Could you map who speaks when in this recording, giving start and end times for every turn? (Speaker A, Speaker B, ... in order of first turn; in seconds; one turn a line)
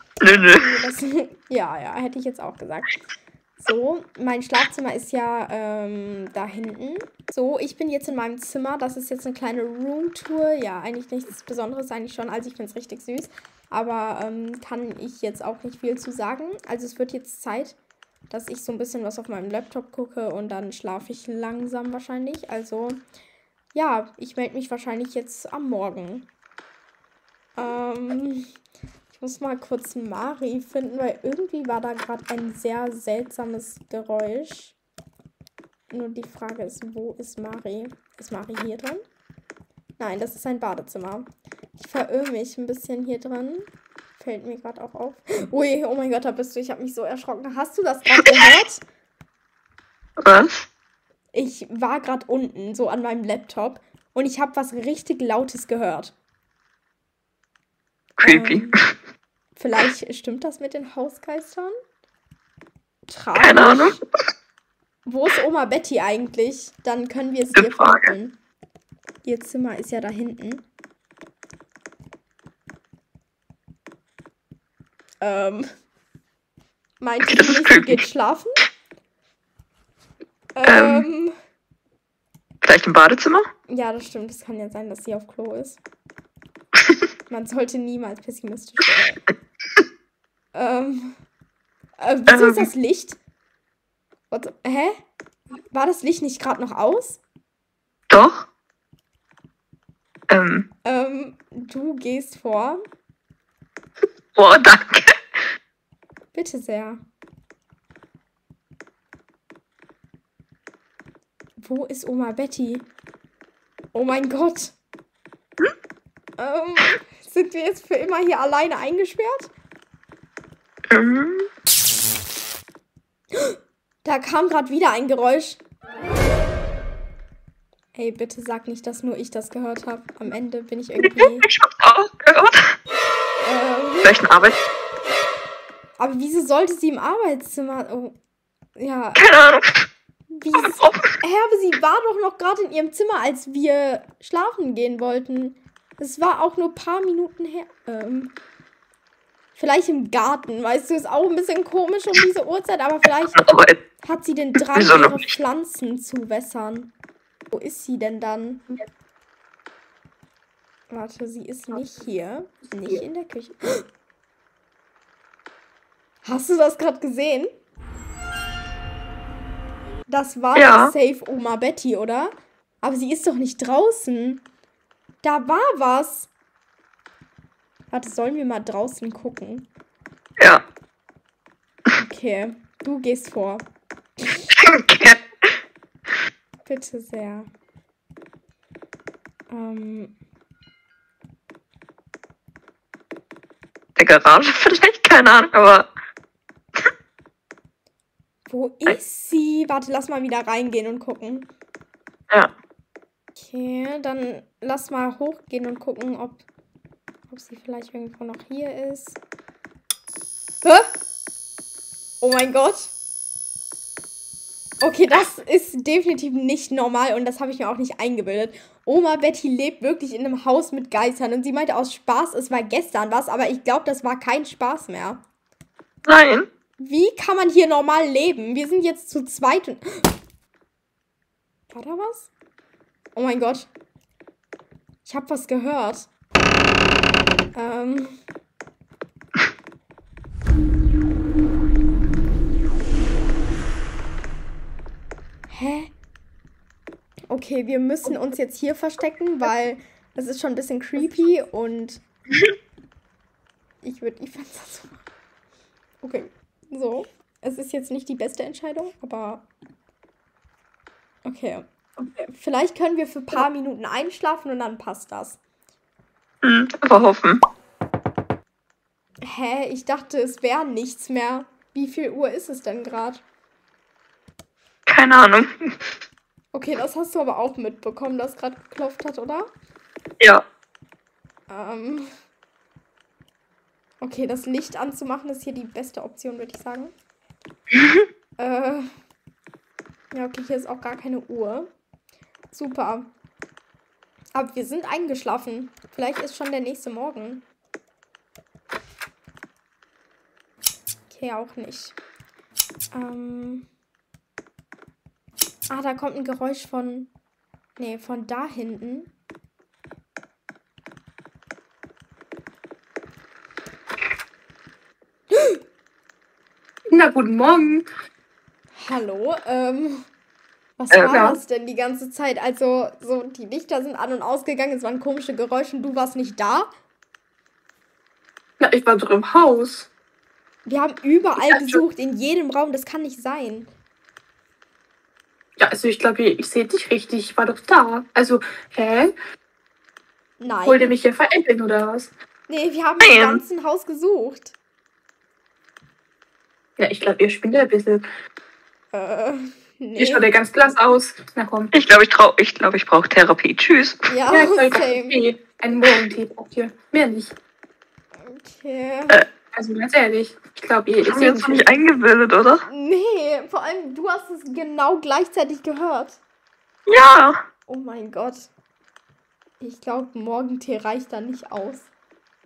Speaker A: 0.2-0.7
Speaker B: 0.3-2.9
Speaker B: 3.6-17.8
Speaker B: 18.3-23.0
Speaker B: 23.7-26.3
Speaker B: 27.6-28.5
Speaker B: 29.1-34.8
Speaker B: 35.9-39.0
Speaker B: 40.0-43.7
Speaker B: 44.2-48.8
Speaker A: 50.2-50.7
Speaker B: 51.3-56.1
Speaker B: 58.2-58.8
Speaker A: 58.2-58.9
Speaker B: 59.6-61.8
Speaker B: 63.1-64.0
Speaker A: 63.4-64.0
Speaker B: 65.1-68.3
Speaker A: 67.5-68.1
Speaker B: 69.2-70.7
Speaker B: 75.2-75.7
Speaker B: 77.0-78.5
Speaker A: 77.3-78.0
Speaker B: 80.6-81.3
Speaker A: 80.7-81.1
Speaker A: 82.6-83.5
Speaker B: 83.7-85.8
Speaker B: 87.3-89.2
Speaker B: 90.5-91.2
Speaker B: 92.0-93.2
Speaker A: 92.3-92.7
Speaker B: 94.3-95.0
Speaker B: 95.7-97.2
Speaker A: 98.1-98.5
Speaker A: 100.3-100.7
Speaker B: 100.8-102.8
Speaker A: 104.3-105.1
Speaker B: 106.3-107.0
Speaker B: 111.6-112.9
Speaker B: 113.9-114.8
Speaker B: 116.4-119.5
Speaker A: 120.9-121.5
Speaker B: 123.3-125.6
Speaker B: 128.0-131.4
Speaker A: 131.0-132.7
Speaker B: 133.4-134.1
Speaker A: 134.0-134.6
Speaker B: 136.0-138.2
Speaker B: 138.8-139.2
Speaker A: 139.2-139.9
Speaker B: 140.3-148.3
Speaker A: 140.6-141.1
Speaker B: 149.6-153.4
Speaker A: 153.3-153.8
Speaker B: 154.0-156.9
Speaker A: 154.6-155.4
Speaker B: 157.5-158.7
Speaker B: 160.9-163.8
Speaker B: 166.2-167.5
Speaker B: 170.1-174.4
Speaker A: 170.6-170.9
Speaker B: 175.2-176.3
Speaker B: 177.9-179.7
Speaker B: 182.0-183.7
Speaker A: 184.5-185.6
Speaker B: 186.7-187.5
Speaker B: 189.5-190.2
Speaker A: 194.0-195.9
Speaker B: 198.5-201.5
Speaker B: 203.4-206.4
Speaker B: 207.3-209.2
Speaker B: 210.6-210.9
Speaker B: 212.2-212.9
Speaker B: 214.8-225.2
Speaker A: 226.1-226.5
Speaker B: 226.8-230.1
Speaker B: 231.7-232.3
Speaker B: 233.2-233.7
Speaker B: 235.1-236.1
Speaker B: 237.6-238.2
Speaker B: 245.5-245.9
Speaker B: 247.3-252.0
Speaker B: 253.8-255.0
Speaker B: 256.0-259.5
Speaker B: 261.2-265.4
Speaker A: 266.4-267.4
Speaker B: 269.2-273.2
Speaker A: 274.9-275.5
Speaker B: 276.5-279.5
Speaker B: 281.5-282.1
Speaker B: 284.0-286.9
Speaker A: 287.8-288.0
Speaker B: 288.4-288.9
Speaker B: 290.1-291.7
Speaker B: 292.5-293.1
Speaker B: 294.4-297.4
Speaker B: 301.1-301.9
Speaker B: 302.9-303.7
Speaker B: 305.7-307.1
Speaker B: 307.8-309.1
Speaker B: 315.3-315.6
Speaker C: 316.9-317.9
Speaker B: 318.8-320.1
Speaker B: 320.8-326.7
Speaker A: 320.9-321.2
Speaker C: 321.1-321.4
Speaker C: 328.6-329.9
Speaker B: 330.7-333.7
Speaker C: 331.4-331.8
Speaker C: 335.6-339.1
Speaker B: 340.4-340.9
Speaker C: 340.6-342.1
Speaker B: 342.5-344.5
Speaker A: 343.0-343.4
Speaker C: 346.8-348.1
Speaker B: 348.9-350.3
Speaker C: 350.0-351.7
Speaker A: 351.7-354.0
Speaker B: 354.1-355.2
Speaker C: 354.3-357.4
Speaker B: 358.2-359.2
Speaker C: 359.5-361.7
Speaker A: 361.1-362.6
Speaker B: 362.7-366.2
Speaker A: 366.9-367.4
Speaker B: 367.7-368.5
Speaker B: 369.6-371.9